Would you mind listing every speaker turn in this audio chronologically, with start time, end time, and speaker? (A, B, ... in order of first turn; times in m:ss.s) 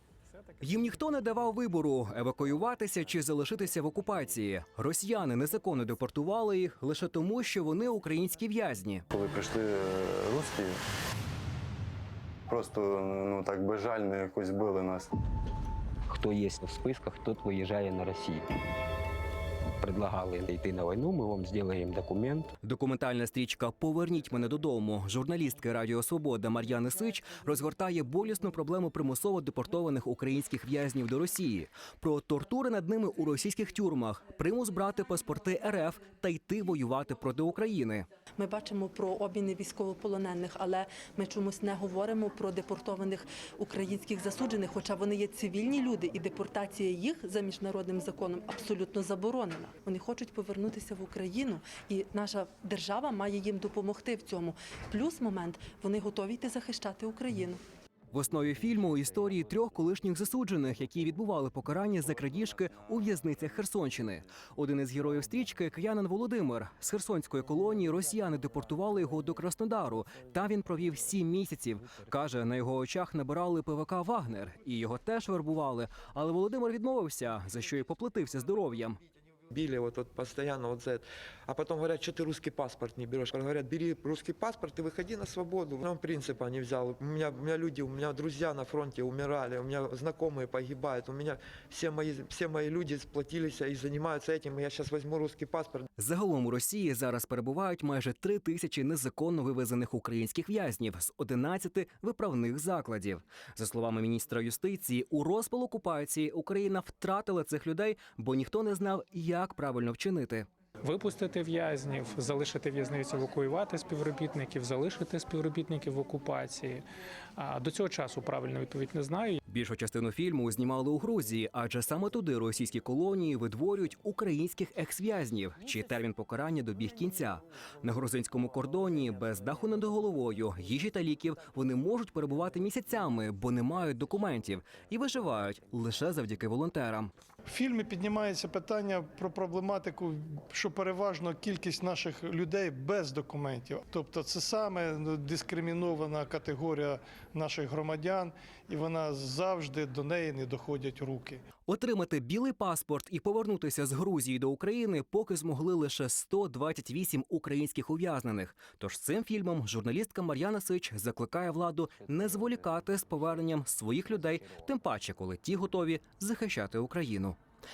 0:00.6-0:09.0 A
0:09.1-0:10.8 B
0:12.5-0:15.1 B
0:16.1-0:18.5 C
0:19.8-0:22.5 C
0:22.6-0:38.1 A
0:38.4-0:57.6 D
0:58.1-1:19.0 A
1:19.5-1:35.9 E
1:36.0-1:50.5 A
1:50.8-1:56.9 F
1:57.4-1:59.4 F
1:59.5-2:17.1 A
2:17.5-2:31.4 G
2:31.7-2:47.4 A